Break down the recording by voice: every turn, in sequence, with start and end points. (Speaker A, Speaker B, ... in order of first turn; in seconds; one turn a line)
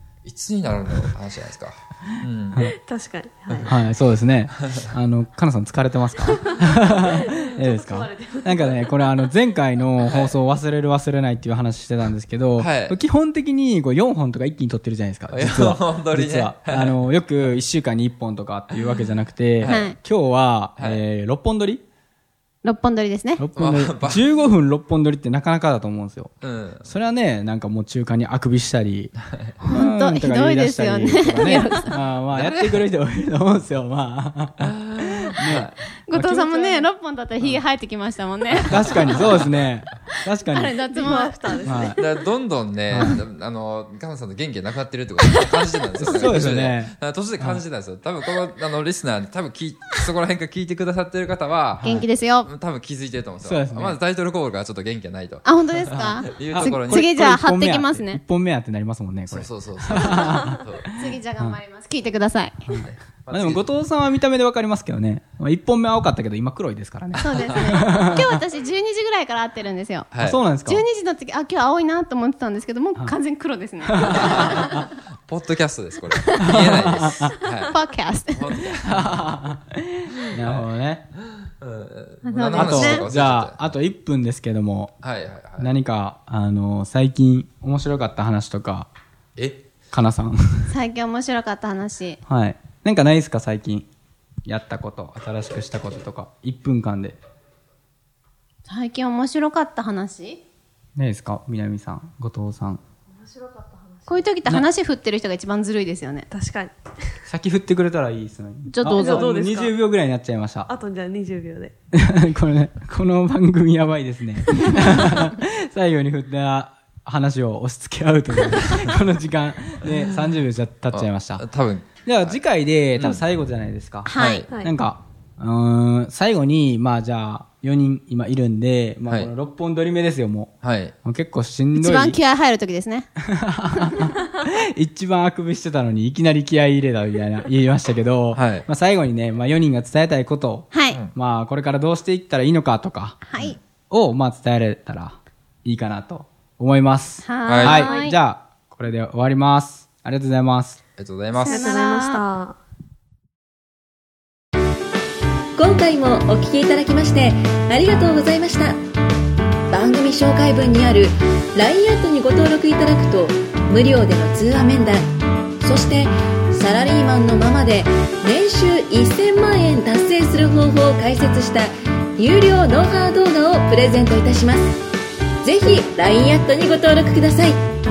Speaker A: 0.2-2.7
Speaker B: 2.6-3.7
Speaker A: 3.5-3.8
Speaker C: 3.6-21.8
Speaker B: 6.3-9.1
Speaker A: 10.0-10.3
Speaker A: 12.6-13.0
Speaker A: 15.3-17.0
Speaker A: 19.6-19.9
Speaker D: 19.6-20.0
Speaker A: 20.8-21.0
Speaker D: 22.6-23.4
Speaker C: 23.4-29.1
Speaker A: 23.6-24.3
Speaker A: 26.4-26.9
Speaker D: 29.6-32.0
Speaker C: 29.7-36.9
Speaker A: 32.3-32.9
Speaker A: 34.6-35.7
Speaker D: 35.5-39.3
Speaker C: 38.7-40.8
Speaker A: 38.8-39.5
Speaker D: 40.4-41.6
Speaker B: 40.9-42.1
Speaker C: 41.6-42.0
Speaker A: 42.0-57.1
Speaker C: 42.9-43.2
Speaker C: 46.0-47.6
Speaker D: 46.1-46.4
Speaker C: 51.8-52.1
Speaker D: 51.8-52.5
Speaker C: 53.4-54.0
Speaker D: 55.4-58.2
Speaker C: 56.4-60.9
Speaker A: 59.3-60.9
Speaker D: 60.9-62.6
Speaker C: 62.7-68.3
Speaker A: 62.8-63.7
Speaker D: 67.2-70.1
Speaker A: 70.1-70.4
Speaker C: 70.2-70.8
Speaker D: 70.6-74.9
Speaker C: 73.8-74.8
Speaker A: 74.1-74.7
Speaker A: 75.3-77.7
Speaker D: 76.2-76.6
Speaker C: 76.4-77.3
Speaker D: 77.7-78.6
Speaker A: 78.3-79.3
Speaker C: 78.8-81.1
Speaker A: 80.3-80.7
Speaker A: 81.6-83.8
Speaker D: 82.2-83.0
Speaker C: 82.5-84.9
Speaker A: 85.0-85.7
Speaker C: 85.6-88.9
Speaker A: 89.3-89.7
Speaker C: 89.9-90.7
Speaker D: 90.7-92.2
Speaker C: 92.3-93.9
Speaker C: 94.5-97.2
Speaker D: 98.7-100.4
Speaker C: 101.0-102.8
Speaker B: 103.1-104.3
Speaker D: 104.1-106.3
Speaker B: 106.3-106.8
Speaker C: 107.2-110.7
Speaker D: 108.7-109.3
Speaker B: 108.9-109.7
Speaker B: 110.7-111.7
Speaker C: 111.9-121.4
Speaker A: 120.9-122.4
Speaker C: 122.0-130.5
Speaker A: 123.0-123.2
Speaker D: 124.0-124.5
Speaker A: 124.2-124.5
Speaker B: 124.5-124.7
Speaker A: 130.6-130.9
Speaker C: 131.0-132.2
Speaker D: 131.7-133.1
Speaker C: 133.2-143.2
Speaker A: 138.3-138.7
Speaker D: 140.7-141.0
Speaker D: 143.2-143.6
Speaker C: 143.9-150.8
Speaker D: 147.2-148.2
Speaker A: 147.4-147.9
Speaker A: 151.0-151.7
Speaker B: 151.3-152.6
Speaker D: 151.3-152.2
Speaker E: 155.6-158.8
Speaker E: 159.7-174.8
Speaker E: 175.4-177.7